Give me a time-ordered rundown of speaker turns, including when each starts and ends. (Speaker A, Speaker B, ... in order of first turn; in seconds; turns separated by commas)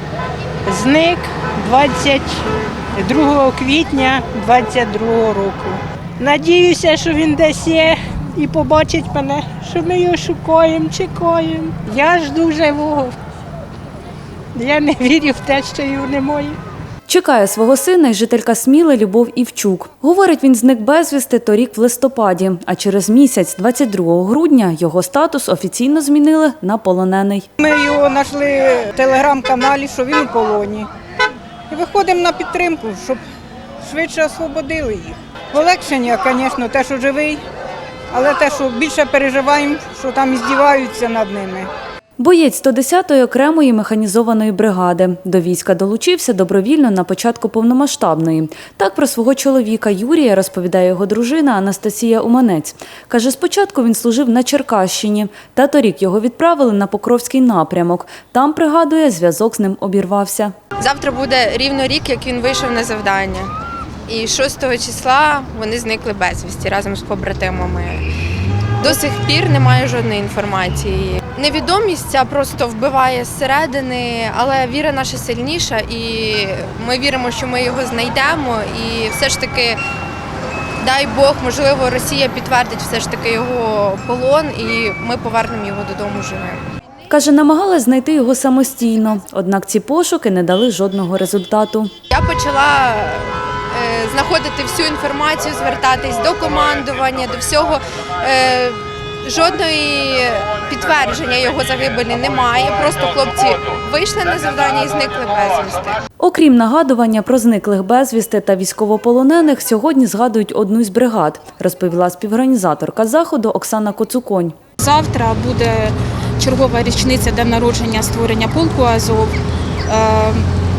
Speaker A: 0.7-13.1, Speaker A: 14.5-16.6, Speaker B: 17.1-27.5, Speaker C: 27.6-30.9, Speaker C: 31.7-33.2, Speaker C: 33.8-37.4, Speaker C: 38.1-41.7, Speaker B: 42.2-60.5, Speaker D: 60.8-63.5, Speaker D: 64.1-68.0, Speaker D: 68.8-79.8, Speaker D: 80.8-86.6, Speaker B: 87.1-91.9, Speaker D: 92.1-106.0, Speaker B: 106.2-114.6, Speaker E: 114.8-119.3, Speaker E: 119.9-120.5